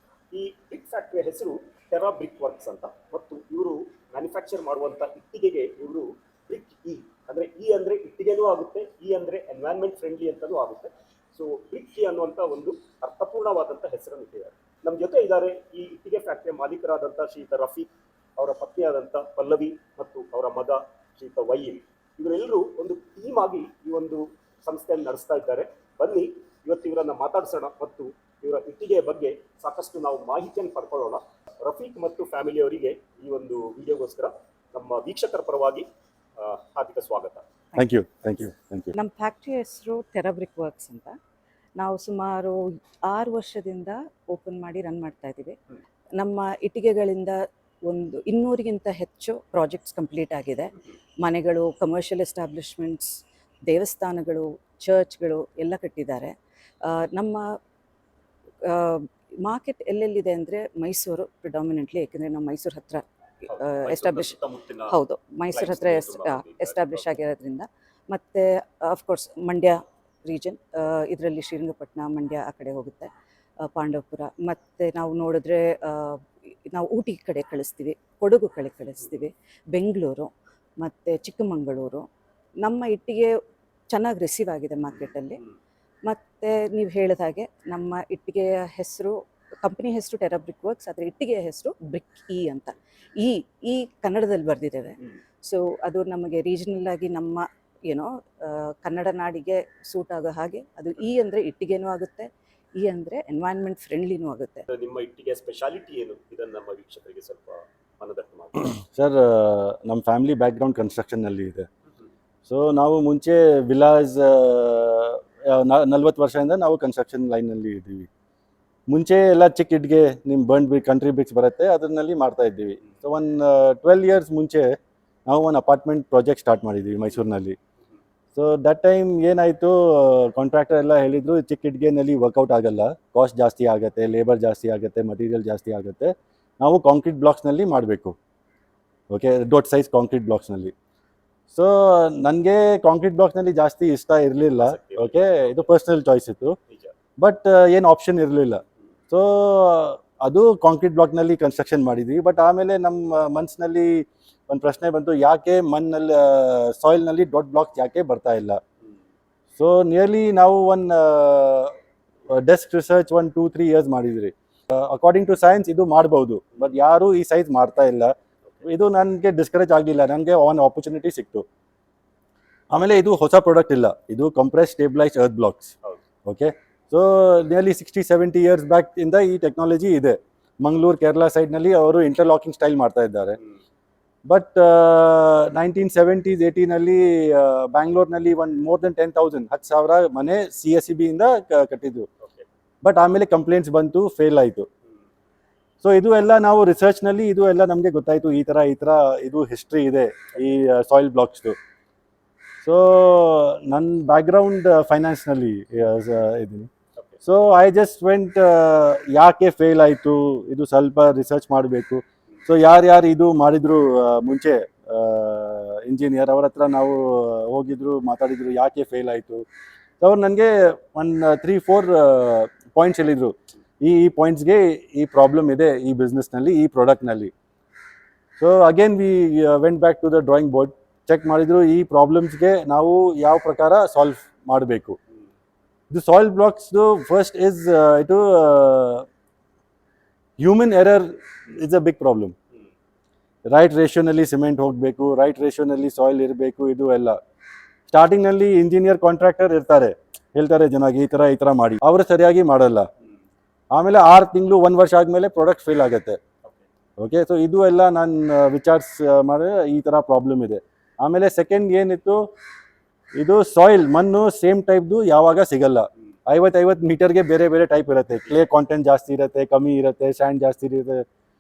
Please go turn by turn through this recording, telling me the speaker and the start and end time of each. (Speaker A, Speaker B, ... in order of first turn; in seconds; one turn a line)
Speaker A: 0.3-37.4
Speaker B: 37.8-38.9
Speaker C: 38.9-41.2
Speaker C: 41.8-45.6
Speaker C: 46.2-53.1
Speaker C: 53.7-57.6
Speaker C: 58.6-64.3
Speaker A: 63.5-65.0
Speaker C: 64.9-73.1
Speaker A: 65.5-67.0
Speaker C: 73.6-82.0
Speaker C: 82.6-83.3
Speaker C: 83.9-85.4
Speaker C: 86.0-104.7
Speaker A: 104.7-108.8
Speaker B: 108.9-111.7
Speaker B: 112.5-118.1
Speaker B: 118.9-127.6
Speaker B: 128.3-138.2
Speaker B: 139.1-140.7
Speaker B: 141.5-146.6
Speaker A: 144.6-145.5
Speaker B: 147.2-158.6
Speaker B: 159.6-161.7
Speaker B: 162.3-171.4
Speaker B: 172.7-175.7
Speaker B: 176.2-183.4
Speaker B: 184.2-192.1
Speaker B: 192.8-194.7
Speaker B: 195.8-201.6
Speaker B: 202.6-206.7
Speaker B: 207.2-219.4
Speaker B: 220.0-227.3
Speaker B: 228.4-235.0
Speaker B: 235.9-239.1
Speaker B: 240.4-242.3
Speaker B: 243.5-247.2
Speaker B: 247.9-252.9
Speaker B: 253.7-256.2
Speaker B: 257.0-262.3
Speaker B: 263.1-271.1